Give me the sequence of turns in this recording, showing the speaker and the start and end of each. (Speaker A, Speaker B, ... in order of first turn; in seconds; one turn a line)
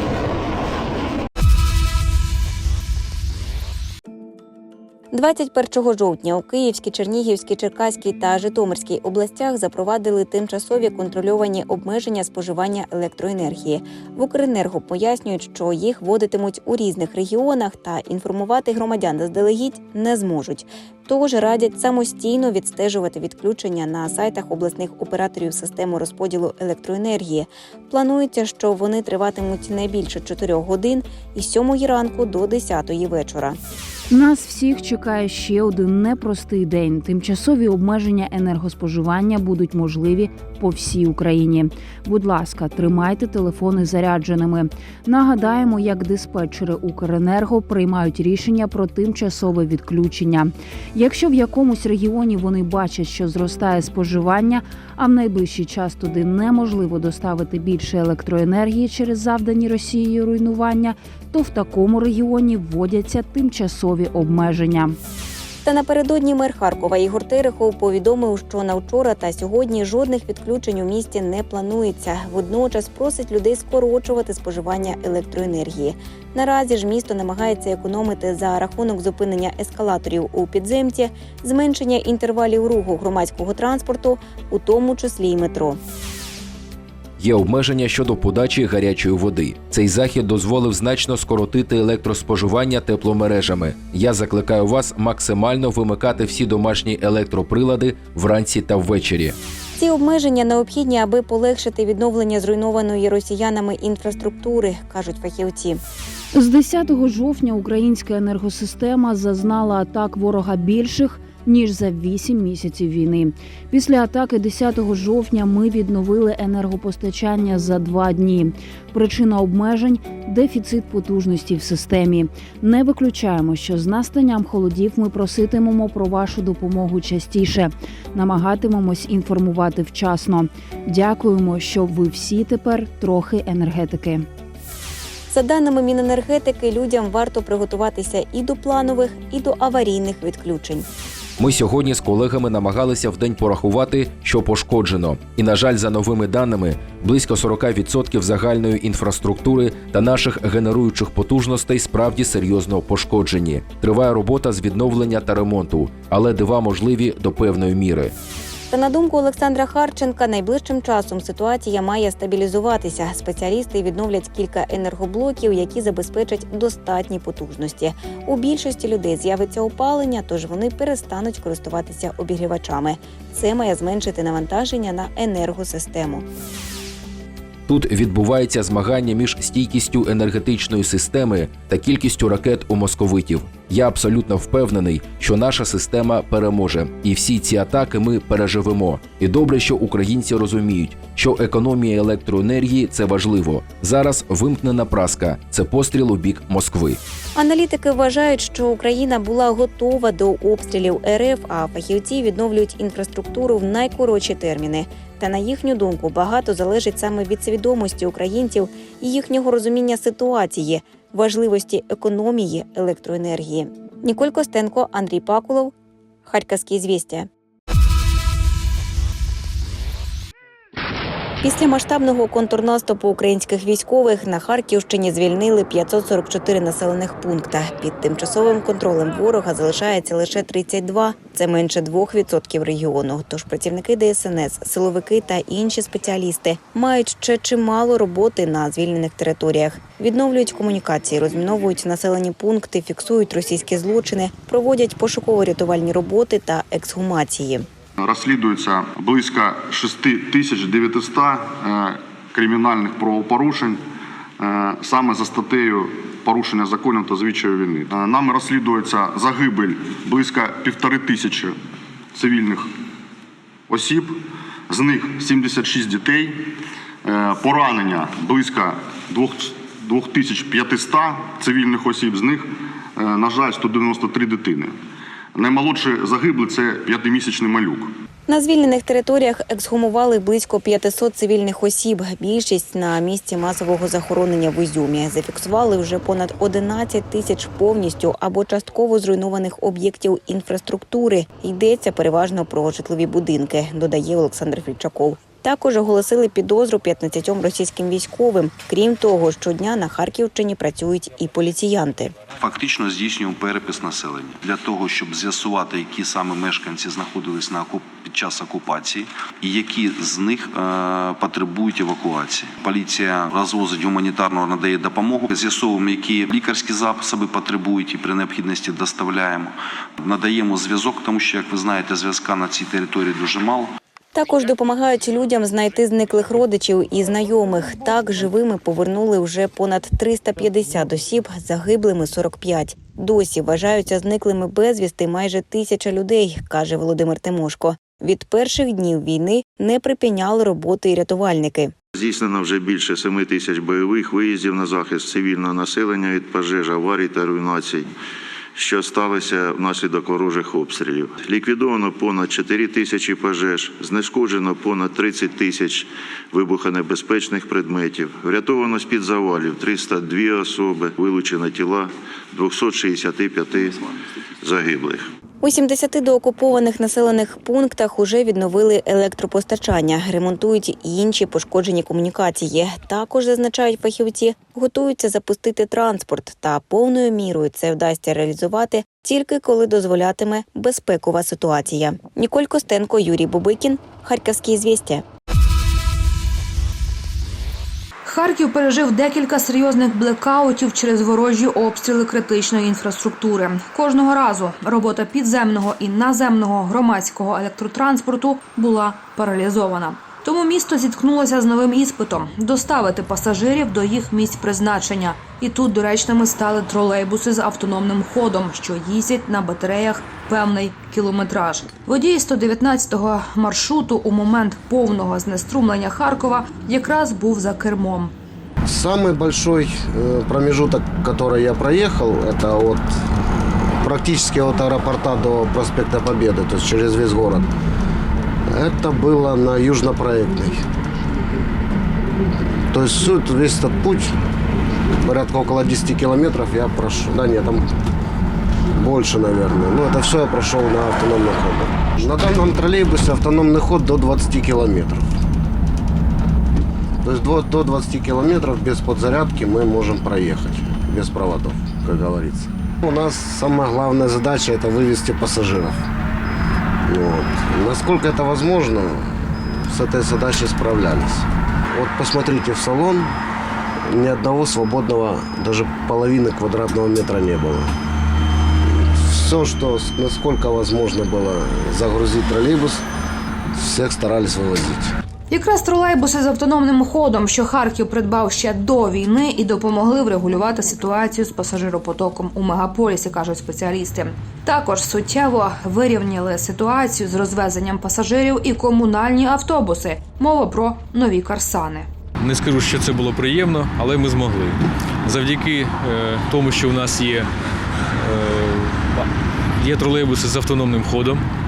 Speaker A: 5.1-33.6
Speaker B: 34.1-65.0
Speaker A: 65.6-85.8
Speaker C: 87.2-99.3
Speaker A: 99.8-105.8
Speaker B: 106.3-134.2
Speaker A: 135.3-140.8
Speaker C: 141.4-158.1
Speaker A: 158.7-176.2
Speaker C: 177.7-197.0
Speaker A: 197.3-215.7
Speaker A: 216.3-217.3
Speaker A: 221.4-247.6
Speaker D: 248.0-253.8
Speaker D: 254.4-261.6
Speaker D: 262.1-262.7
Speaker D: 263.7-264.2
Speaker D: 264.7-266.5
Speaker D: 267.0-274.7
Speaker D: 275.3-277.9
Speaker A: 278.3-302.1
Speaker E: 302.4-323.7
Speaker A: 324.1-341.7
Speaker F: 341.9-347.9
Speaker F: 348.5-365.1
Speaker A: 365.4-385.0
Speaker G: 388.0-418.1
Speaker H: 418.6-422.9
Speaker H: 423.8-427.4
Speaker H: 428.5-430.6
Speaker H: 432.7-434.1
Speaker H: 435.0-437.7
Speaker H: 438.8-445.1
Speaker H: 447.0-455.8
Speaker H: 456.9-463.1
Speaker H: 463.9-467.7
Speaker H: 468.7-472.8
Speaker H: 473.5-474.9
Speaker G: 475.3-491.9
Speaker I: 492.2-497.3
Speaker I: 498.0-501.2